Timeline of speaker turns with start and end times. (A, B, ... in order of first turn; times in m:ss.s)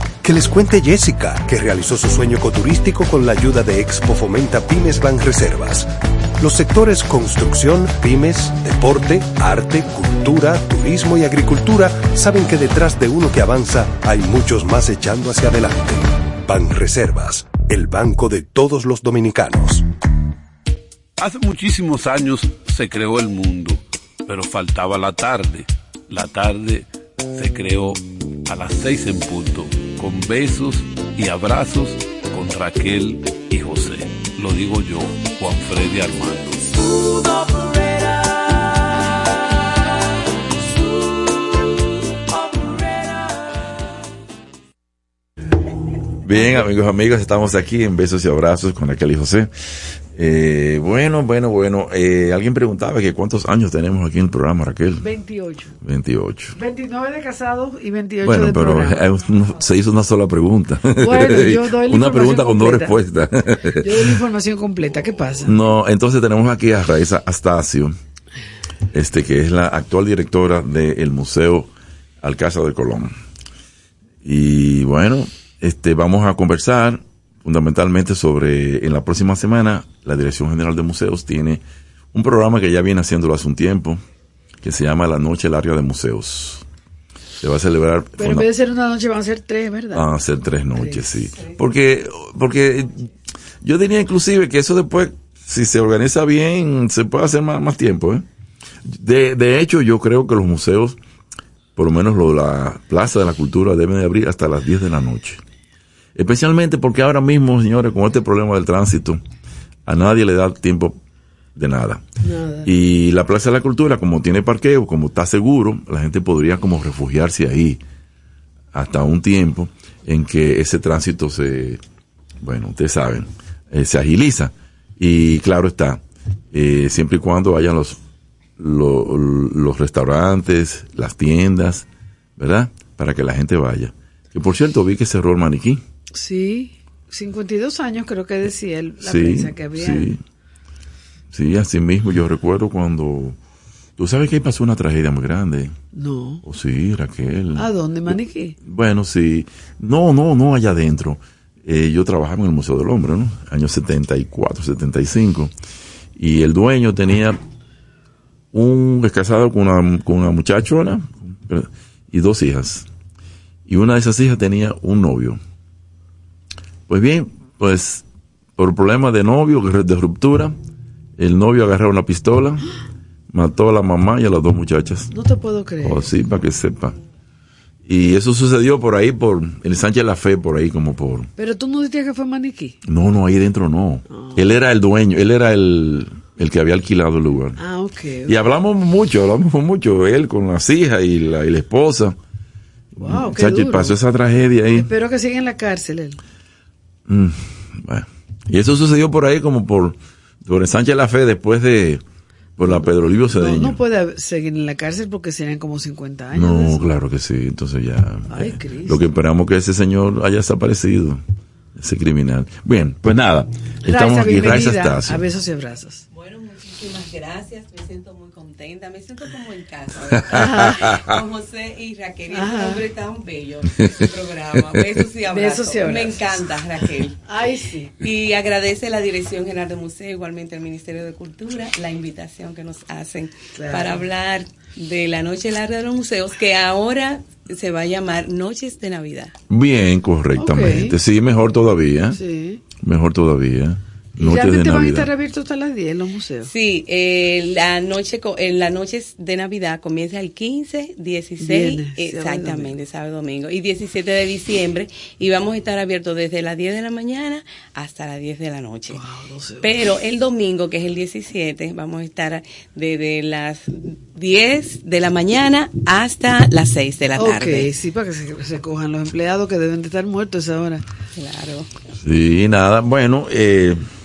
0:00.2-0:19.8 A
0:21.2-0:36.9 B
0:46.2-0:49.5 C
0:50.1-0:55.1 C
0:55.0-0:55.7 D
0:55.8-0:56.6 C
0:56.6-0:59.0 D
0:58.2-1:04.0 C
1:01.0-1:03.0 D
1:03.8-1:05.5 D
1:05.4-1:07.9 C
1:08.9-1:11.7 C
1:12.2-1:13.1 C
1:14.2-1:24.0 C
1:24.6-1:26.6 C
1:27.4-1:28.4 C
1:28.2-1:30.0 D
1:29.9-1:33.1 C
1:30.8-1:31.2 D
1:33.6-1:38.2 C
1:38.8-1:41.0 C
1:41.8-1:45.4 C
1:46.2-1:49.2 C
1:49.8-1:51.0 C
1:51.5-1:52.0 C
1:52.2-1:52.7 D
1:52.6-1:57.8 C
1:58.7-2:01.8 C
2:02.4-2:06.0 C
2:06.5-2:08.0 C
2:08.6-2:15.8 C
2:16.1-2:20.1 D
2:19.0-2:20.2 C
2:21.3-2:23.4 C
2:24.0-2:25.7 C
2:25.9-2:26.4 D
2:26.4-2:27.7 C
2:27.6-2:28.6 D
2:28.6-2:35.5 C
2:36.2-2:37.4 C
2:38.5-2:42.9 C
2:43.6-2:45.4 C
2:46.9-2:48.0 C
2:48.6-2:50.6 C
2:51.2-2:52.6 C
2:53.3-2:55.1 C
2:55.1-2:56.0 D
2:55.8-2:56.9 C
2:57.8-3:01.3 C
3:01.4-3:02.8 D
3:02.8-3:07.6 C
3:04.1-3:04.5 D
3:07.6-3:08.4 D
3:08.2-3:12.2 C
3:13.0-3:14.9 C
3:13.0-3:14.0 D
3:14.8-3:16.2 D
3:17.1-3:22.0 C
3:22.6-3:23.8 C
3:22.6-3:26.9 D
3:26.3-3:31.2 C
3:28.3-3:29.0 D
3:31.8-3:35.2 C
3:33.8-3:36.0 D
3:36.1-3:47.2 E
3:40.3-3:41.1 C
3:40.3-3:40.8 D
3:42.3-3:42.8 D
3:45.3-3:46.3 D
3:47.3-3:47.9 D
3:48.0-3:59.3 E
3:53.5-3:54.0 D
3:59.5-4:02.2 C
4:00.4-4:00.9 D
4:02.1-4:02.6 D
4:02.8-4:05.1 C
4:04.2-4:06.5 D
4:06.4-4:19.0 E
4:11.4-4:12.7 D
4:18.9-4:19.7 D
4:19.6-4:27.7 E
4:27.2-4:30.8 D
4:31.2-4:31.7 E
4:32.0-4:33.8 C